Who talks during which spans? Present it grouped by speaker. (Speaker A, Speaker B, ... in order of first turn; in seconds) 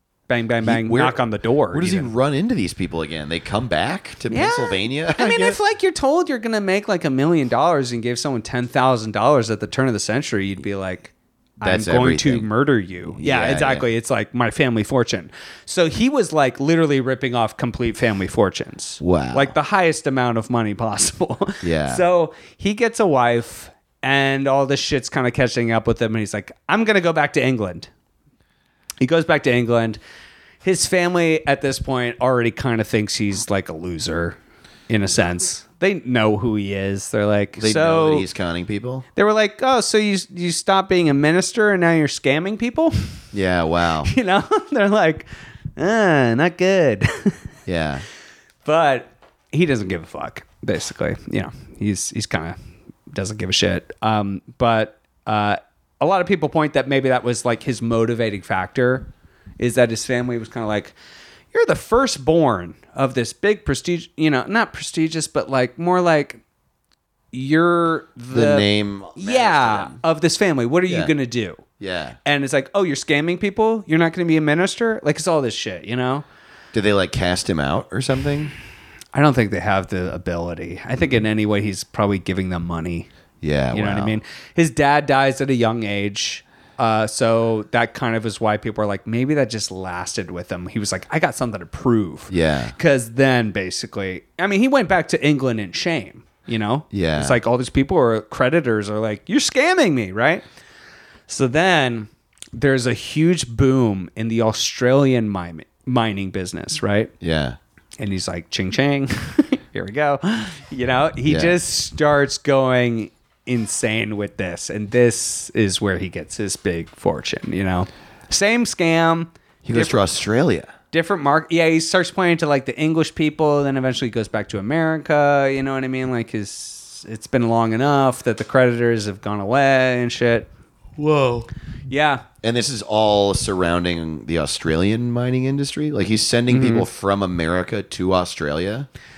Speaker A: 0.3-2.1, 4.3-27.9, 29.0-30.0, 30.6-34.4, 34.9-38.3, 39.2-43.2, 44.0-47.4, 48.6-52.6, 53.1-61.0, 61.5-66.4, 67.3-71.6, 72.2-76.2, 79.1-83.1, 83.7-100.5, 101.3-107.1, 108.0-120.0, 120.9-130.5, 131.9-132.2, 136.5-136.9
Speaker B: 0.6-5.6, 11.6-12.5, 13.1-13.9, 19.0-19.5, 21.6-22.0, 37.6-39.1, 43.3-44.1, 47.7-48.0, 68.3-70.0, 70.9-71.1, 71.8-72.2, 76.7-78.5, 83.4-84.2, 92.3-92.8, 96.9-97.4, 107.2-107.6, 111.2-111.6, 119.6-120.7, 131.0-131.5, 132.4-138.9